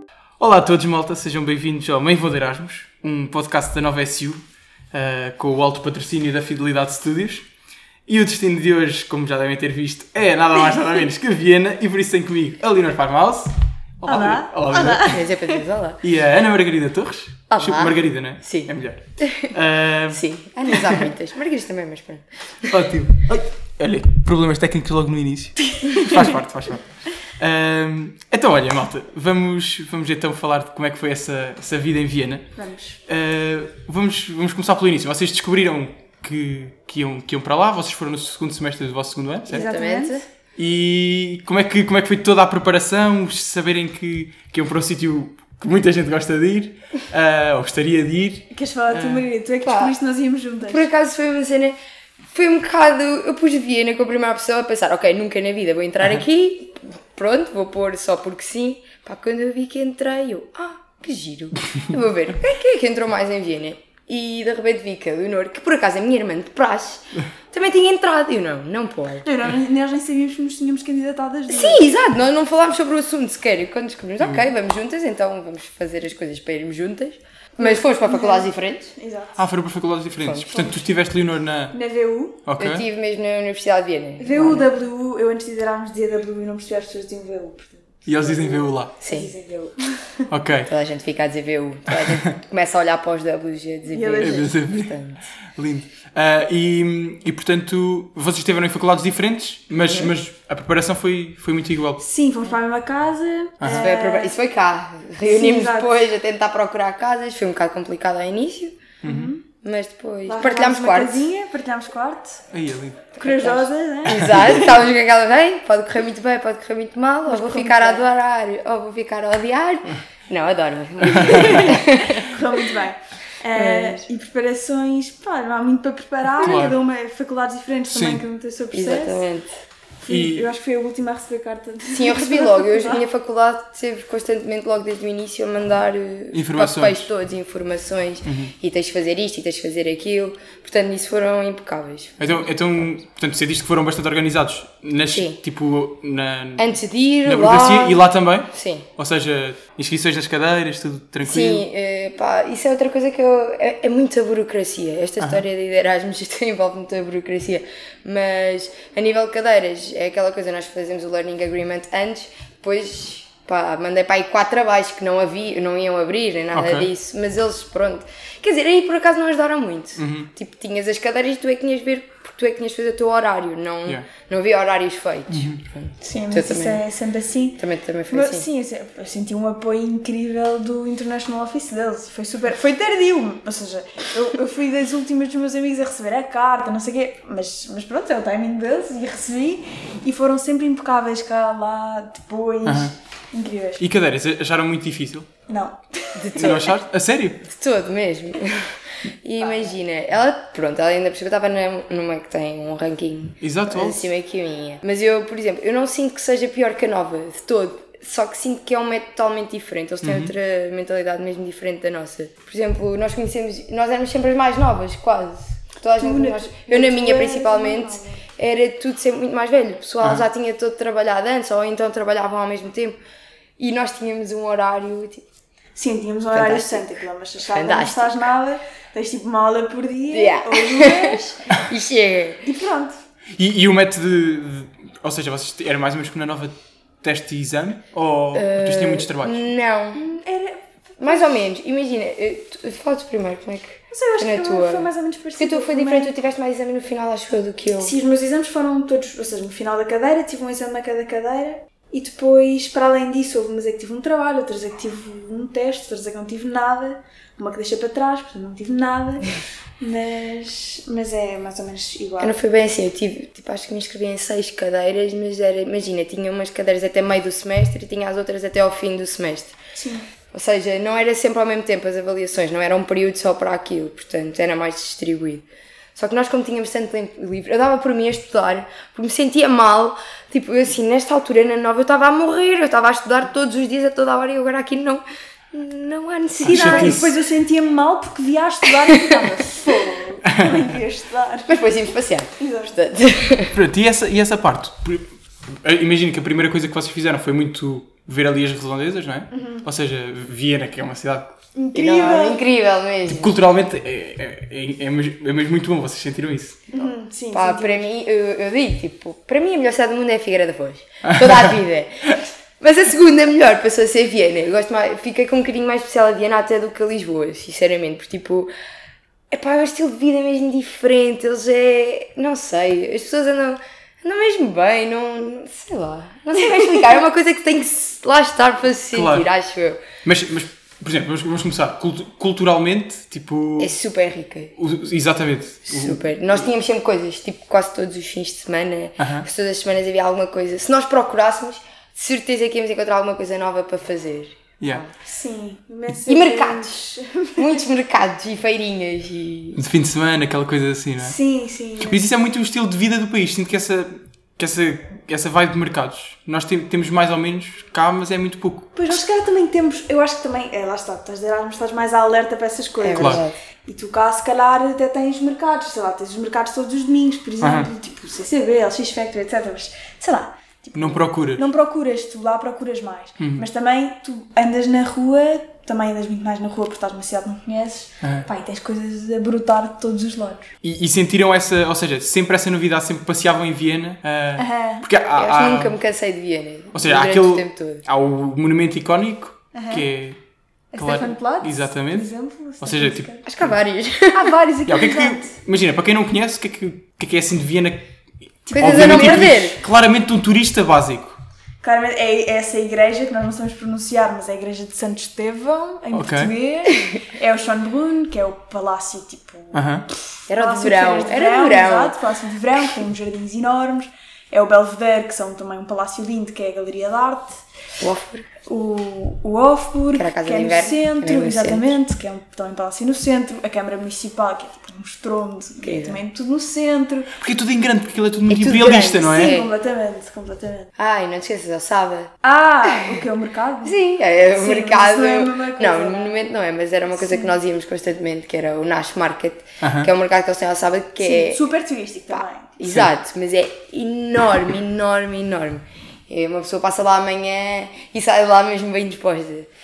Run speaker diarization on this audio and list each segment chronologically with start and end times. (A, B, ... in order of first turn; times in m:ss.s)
0:00.4-0:04.4 A
0:04.9-0:07.5 A
0:08.1-0:15.2 A
0:14.1-0:15.5 B
0:15.0-0:16.0 C
0:16.0-0:21.0 A
0:17.5-0:19.5 C
0:20.1-0:22.8 C
0:22.7-0:26.8 A
0:25.8-0:26.1 B
0:27.4-0:32.5 A
0:32.6-0:33.0 B
0:33.1-0:39.7 A
0:39.5-0:40.3 C
0:39.5-0:40.2 B
0:40.6-0:49.3 A
0:48.5-0:50.9 B
0:49.6-0:50.0 C
0:50.7-0:51.8 C
0:52.3-1:09.3 C
1:09.2-1:11.8 B
1:11.5-1:18.9 C
1:14.2-1:14.5 A
1:17.6-1:19.4 B
1:19.4-1:21.8 A
1:20.2-1:20.7 C
1:20.6-1:20.8 B
1:21.7-1:22.5 B
1:22.5-1:22.8 A
1:22.6-1:24.6 C
1:24.2-1:30.3 B
1:28.1-1:28.9 A
1:29.0-1:29.3 C
1:30.3-1:30.7 A
1:30.7-1:35.3 C
1:33.9-1:34.5 B
1:34.2-1:35.0 A
1:35.5-1:42.0 A
1:39.8-1:40.1 C
1:42.0-1:44.4 B
1:43.6-1:43.9 A
1:43.6-1:48.8 C
1:45.2-1:46.0 B
1:49.0-1:49.3 A
1:49.0-1:49.4 B
1:49.6-1:51.3 C
1:50.3-1:52.4 B
1:52.5-1:53.2 A
1:53.2-2:02.4 C
1:53.2-1:54.7 B
1:54.1-1:54.5 A
1:57.3-1:58.0 B
2:01.0-2:01.7 A
2:01.2-2:09.2 B
2:03.6-2:04.0 C
2:06.4-2:06.8 A
2:07.9-2:08.2 A
2:08.7-2:09.5 C
2:10.0-2:13.0 B
2:10.1-2:10.5 A
2:11.9-2:22.2 C
2:16.3-2:17.1 A
2:18.2-2:18.5 A
2:22.2-2:31.6 A
2:25.1-2:25.4 C
2:26.6-2:28.9 C
2:31.2-2:56.8 C
2:46.5-2:46.9 A
2:50.0-2:50.3 A
2:55.3-2:55.6 A
2:56.0-3:13.8 B
2:57.6-2:58.5 C
3:12.6-3:12.9 A
3:13.8-3:15.3 A
3:15.5-3:16.5 B
3:16.2-3:16.7 C
3:16.4-3:17.4 A
3:17.5-3:43.0 C
3:19.4-3:19.7 B
3:23.4-3:24.1 A
3:30.0-3:30.3 A
3:36.0-3:38.2 B
3:43.6-3:45.2 C
3:45.8-3:51.3 B
3:46.3-3:46.9 C
3:47.5-3:48.1 C
3:50.1-3:52.5 C
3:52.4-3:53.0 B
3:53.4-3:59.5 A
3:58.4-4:00.0 C
3:59.9-4:01.4 B
4:01.0-4:08.0 C
4:03.9-4:06.2 B
4:07.8-4:22.4 B
4:22.2-4:29.6 C
4:29.8-4:30.1 B
4:30.3-4:47.0 C
4:46.4-4:47.2 A
4:46.4-4:51.6 B
4:50.3-4:50.7 A
4:51.5-4:53.6 C
4:52.4-4:52.8 B
4:53.5-5:01.4 A
4:59.3-4:59.7 B
5:01.6-5:02.4 B
5:01.8-5:03.4 C
5:03.1-5:06.7 A
5:06.7-5:07.9 B
5:07.3-5:18.5 C
5:11.0-5:11.6 A
5:19.3-5:29.8 C
5:28.9-5:29.3 A
5:30.0-5:33.7 A
5:33.6-5:34.6 C
5:34.6-5:36.0 A
5:35.7-5:44.9 C
5:39.0-5:39.3 A
5:45.0-5:47.7 B
5:46.0-5:46.8 C
5:47.4-5:49.6 C
5:49.6-5:51.2 A
5:51.0-5:52.0 B
5:51.8-5:58.9 A
5:58.8-6:20.5 B
6:02.8-6:03.4 C
6:02.9-6:03.2 A
6:07.4-6:07.7 A
6:10.8-6:11.5 A
6:13.2-6:13.5 A
6:18.0-6:18.3 A
6:20.6-6:25.8 A
6:24.4-6:24.9 B
6:25.2-6:27.8 C
6:26.7-6:30.2 A
6:29.5-6:29.9 B
6:30.7-6:33.2 B
6:30.8-6:33.6 A
6:33.2-6:34.3 C
6:34.1-6:35.4 B
6:34.7-6:37.9 A
6:38.5-6:39.5 B
6:38.5-6:41.2 A
6:38.5-6:39.6 C
6:41.6-6:49.6 B
6:45.9-6:46.3 A
6:49.5-6:49.9 A
6:50.3-6:57.4 B
6:50.3-6:52.0 C
6:57.8-6:58.3 C
6:58.5-7:07.2 B
6:59.9-7:01.8 C
7:05.6-7:06.0 C
7:07.2-7:09.3 A
7:08.3-7:09.5 C
7:08.8-7:10.7 B
7:10.8-7:12.1 C
7:12.2-7:16.2 B
7:13.6-7:21.4 C
7:16.9-7:17.4 B
7:19.6-7:19.9 A
7:21.0-7:22.5 B
7:22.1-7:29.5 C